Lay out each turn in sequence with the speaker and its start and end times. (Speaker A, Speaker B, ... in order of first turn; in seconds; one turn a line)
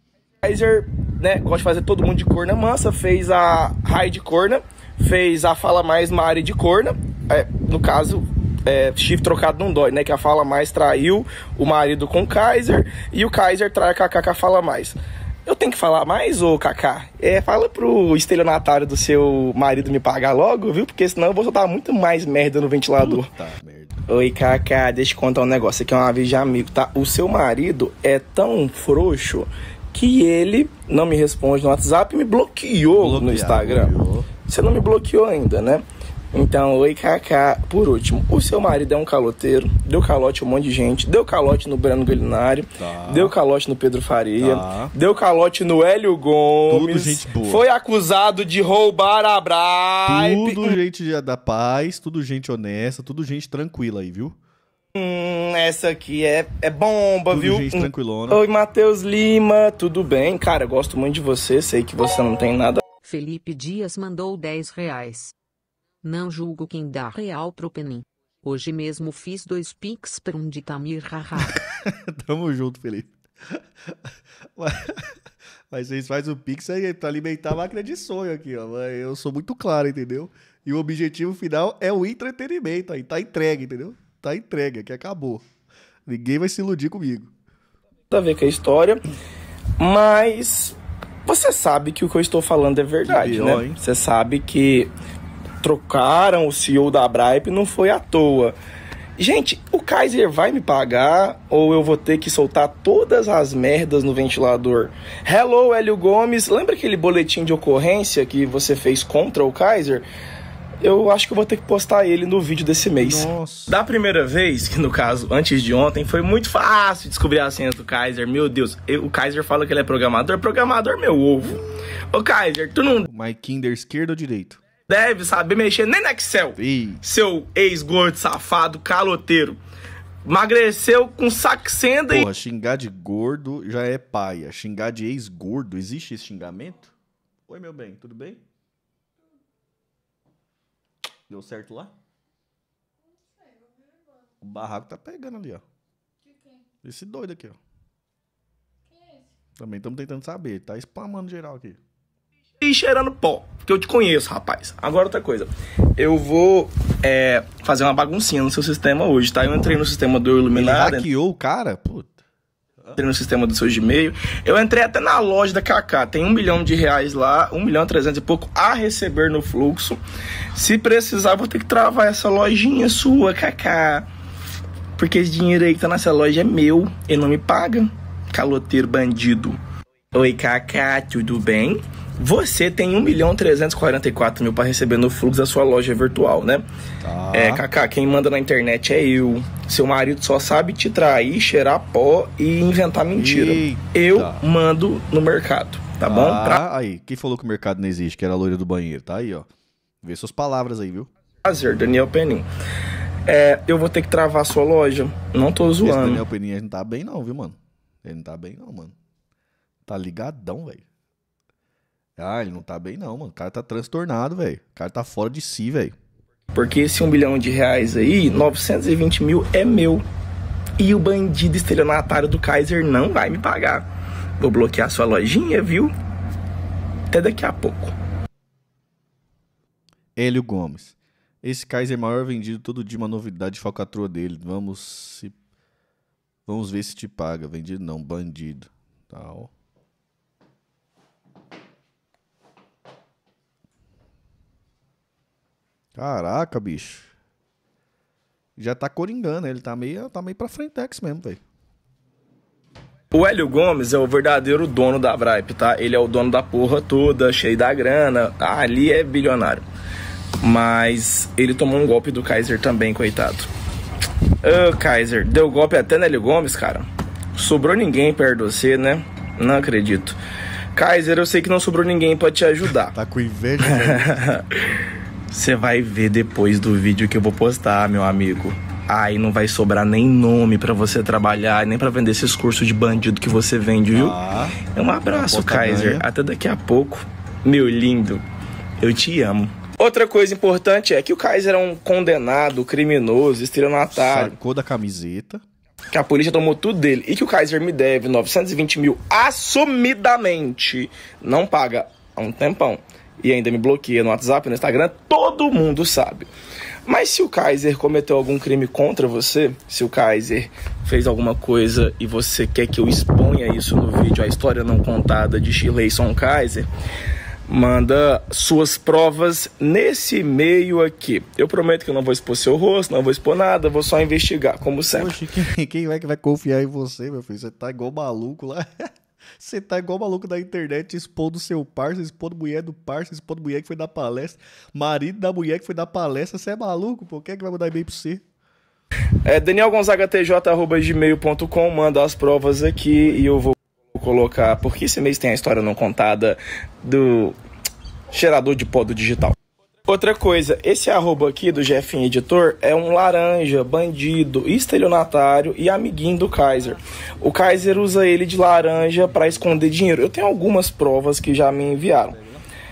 Speaker A: 0.4-23.3
Speaker B: 23.0-24.0
Speaker A: 24.1-33.9
Speaker B: 32.9-34.3
Speaker A: 34.5-50.8
Speaker B: 42.8-43.4
Speaker B: 44.4-44.9
Speaker B: 46.7-47.6
Speaker B: 50.1-54.4
Speaker A: 55.0-62.8
Speaker B: 57.3-58.4
Speaker C: 63.0-65.3
Speaker C: 66.0-71.6
Speaker B: 71.5-75.2
Speaker B: 75.7-85.5
Speaker B: 86.1-87.3
Speaker A: 88.1-89.0
Speaker A: 89.8-94.9
Speaker B: 93.1-93.8
Speaker A: 95.6-98.6
Speaker A: 99.2-110.1
Speaker A: 110.8-123.0
Speaker B: 113.0-113.8
Speaker B: 123.1-124.6
Speaker A: 124.9-129.6
Speaker B: 126.6-127.0
Speaker A: 130.2-132.3
Speaker B: 132.1-136.9
Speaker B: 137.5-138.4
Speaker B: 141.3-142.0
Speaker B: 144.4-145.6
Speaker B: 146.8-147.6
Speaker B: 149.6-151.8
Speaker A: 152.6-161.1
Speaker B: 160.5-162.2
Speaker A: 163.0-170.0
Speaker A: 170.5-174.1
Speaker A: 175.0-179.6
Speaker A: 180.1-186.7
Speaker B: 187.0-187.7
Speaker A: 187.3-196.6
Speaker B: 193.1-194.4
Speaker B: 196.0-199.5
Speaker B: 200.0-201.1
Speaker A: 201.4-202.5
Speaker A: 203.3-206.2
Speaker B: 205.8-208.9
Speaker B: 209.9-210.8
Speaker B: 212.2-216.0
Speaker A: 216.5-220.1
Speaker A: 220.8-223.9
Speaker A: 224.4-225.9
Speaker A: 227.1-227.9
Speaker B: 230.2-235.3
Speaker B: 236.5-239.5
Speaker B: 245.9-247.1
Speaker B: 248.6-251.4
Speaker A: 253.1-259.6
Speaker A: 260.4-263.5
Speaker A: 264.4-270.2
Speaker A: 270.8-273.0
Speaker B: 272.9-274.4
Speaker A: 273.6-274.6
Speaker A: 275.3-284.1
Speaker B: 283.9-284.6
Speaker A: 284.7-288.2
Speaker B: 285.1-286.1
Speaker A: 288.8-294.3
Speaker B: 293.9-295.4
Speaker A: 295.9-306.3
Speaker A: 306.9-316.7
Speaker A: 317.5-325.2
Speaker B: 324.9-338.2
Speaker A: 339.2-347.4
Speaker A: 348.1-362.2